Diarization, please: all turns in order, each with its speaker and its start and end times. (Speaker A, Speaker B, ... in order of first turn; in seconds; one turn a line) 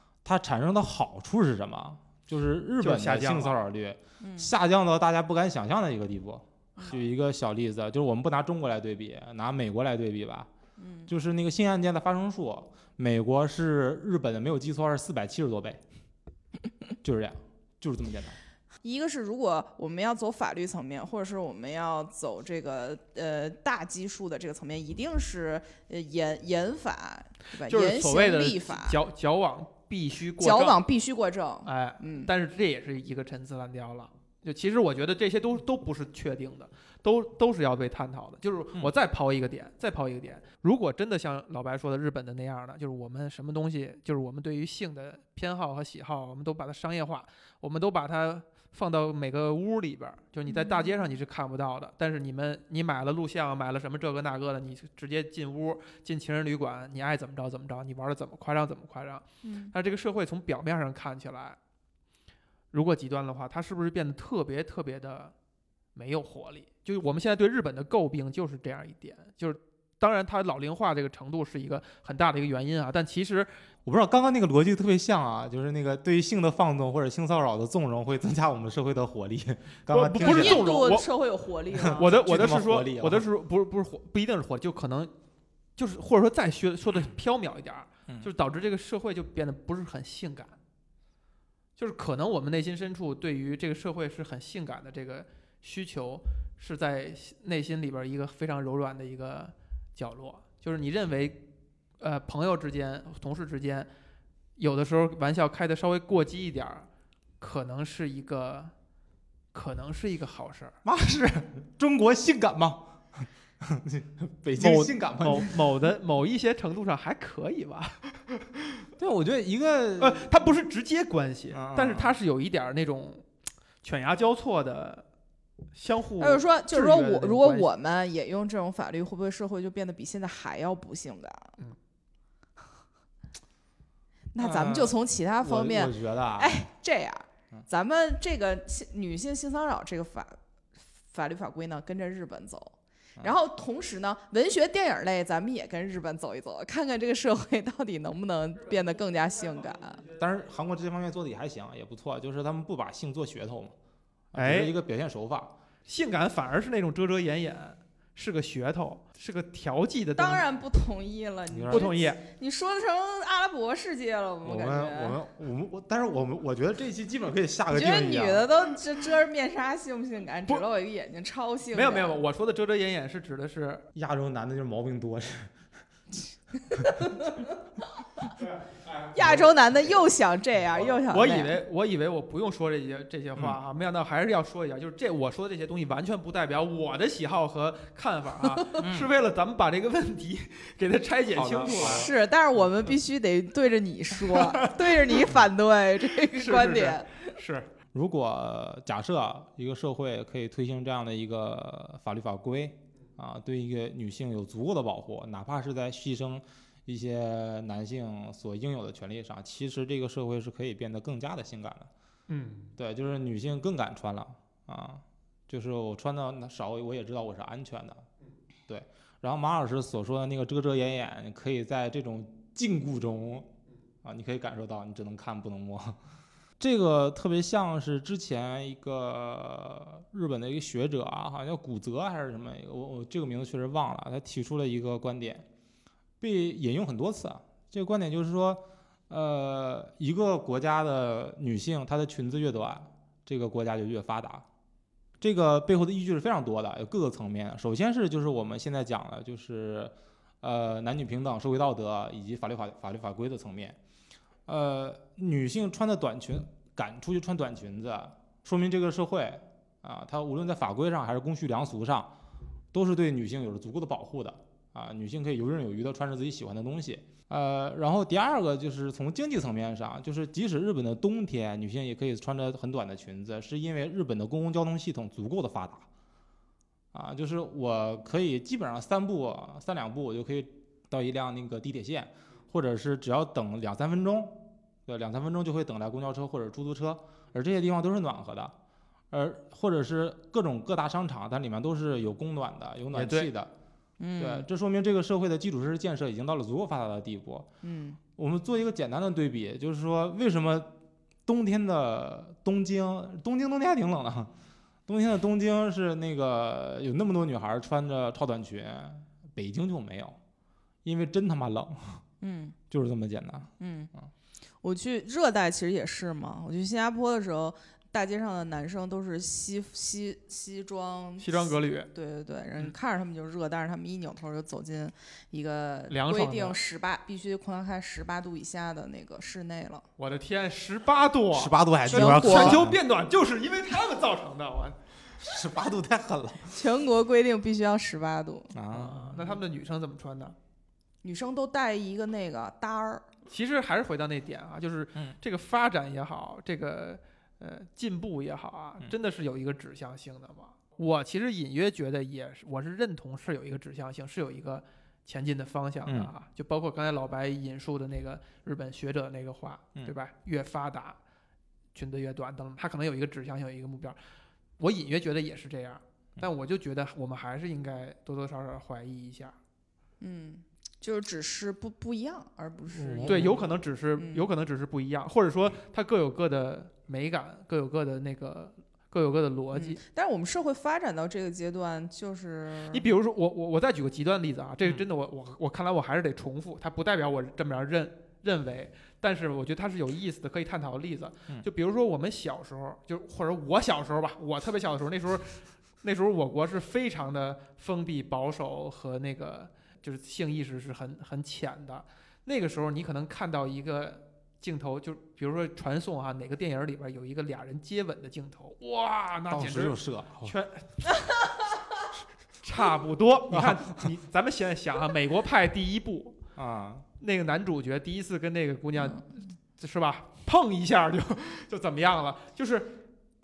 Speaker A: 0.2-10.5
Speaker B: 2.8-3.6
Speaker C: 4.2-4.5
Speaker C: 10.8-11.1
Speaker A: 11.1-15.8
Speaker A: 17.0-18.4
Speaker C: 18.8-29.0
Speaker B: 27.6-30.8
Speaker C: 30.4-32.3
Speaker B: 31.6-61.6
Speaker C: 50.5-51.1
Speaker C: 59.4-59.7
Speaker B: 62.7-65.3
Speaker B: 66.0-73.5
Speaker A: 73.9-80.7
Speaker B: 79.9-81.1
Speaker C: 80.2-82.1
Speaker A: 81.8-83.2
Speaker B: 81.9-85.1
Speaker B: 85.8-90.6
Speaker B: 91.8-101.4
Speaker B: 102.0-103.9
Speaker B: 104.6-106.9
Speaker B: 107.4-108.7
Speaker B: 109.5-110.8
Speaker A: 110.8-115.6
Speaker B: 114.6-118.4
Speaker A: 119.0-120.3
Speaker B: 120.0-123.3
Speaker A: 121.5-122.2
Speaker B: 123.8-125.0
Speaker B: 125.7-127.7
Speaker C: 126.2-131.6
Speaker C: 134.3-140.4
Speaker A: 134.4-136.7
Speaker C: 141.1-150.0
Speaker A: 150.1-153.8
Speaker A: 154.3-155.5
Speaker B: 154.3-154.8
Speaker B: 155.9-160.4
Speaker C: 160.2-165.2
Speaker A: 161.5-161.9
Speaker B: 161.7-162.2
Speaker A: 164.4-168.5
Speaker C: 167.7-172.2
Speaker B: 171.7-173.9
Speaker A: 173.9-175.5
Speaker C: 176.9-177.4
Speaker B: 179.0-179.5
Speaker C: 179.1-181.6
Speaker B: 181.1-192.1
Speaker A: 188.8-189.1
Speaker A: 191.3-192.1
Speaker C: 191.7-197.2
Speaker B: 194.2-195.3
Speaker B: 196.2-197.7
Speaker A: 197.9-211.9
Speaker B: 212.3-212.7
Speaker A: 212.8-218.0
Speaker A: 218.7-223.5
Speaker A: 224.0-226.0
Speaker A: 226.6-235.5
Speaker A: 236.2-244.4
Speaker A: 245.2-253.8
Speaker A: 254.5-262.1
Speaker A: 262.7-275.9
Speaker A: 276.9-288.5
Speaker A: 289.1-293.5
Speaker B: 292.9-293.3
Speaker C: 294.0-294.5
Speaker A: 294.2-297.5
Speaker C: 297.6-298.0
Speaker A: 298.2-300.7
Speaker A: 301.3-304.3
Speaker A: 304.9-310.2
Speaker A: 310.9-312.0
Speaker C: 312.2-312.6
Speaker A: 312.7-313.5
Speaker C: 313.6-313.9
Speaker C: 314.6-329.9
Speaker B: 321.2-321.9
Speaker B: 325.9-326.6
Speaker B: 330.0-334.8
Speaker A: 331.3-332.8
Speaker C: 331.9-332.6
Speaker A: 335.2-336.6
Speaker C: 336.5-338.5
Speaker A: 338.5-339.4
Speaker B: 338.7-340.4
Speaker C: 341.0-343.1
Speaker B: 343.3-361.0
Speaker A: 355.9-356.1
Speaker B: 361.8-364.0
Speaker B: 364.6-369.4
Speaker C: 370.0-373.4
Speaker A: 372.7-373.4
Speaker B: 373.1-379.8
Speaker C: 374.0-374.3
Speaker C: 379.5-382.9
Speaker B: 382.7-411.0
Speaker A: 409.3-410.3
Speaker B: 412.4-416.2
Speaker A: 413.3-413.8
Speaker A: 416.4-416.9
Speaker B: 417.0-419.1
Speaker B: 419.6-422.8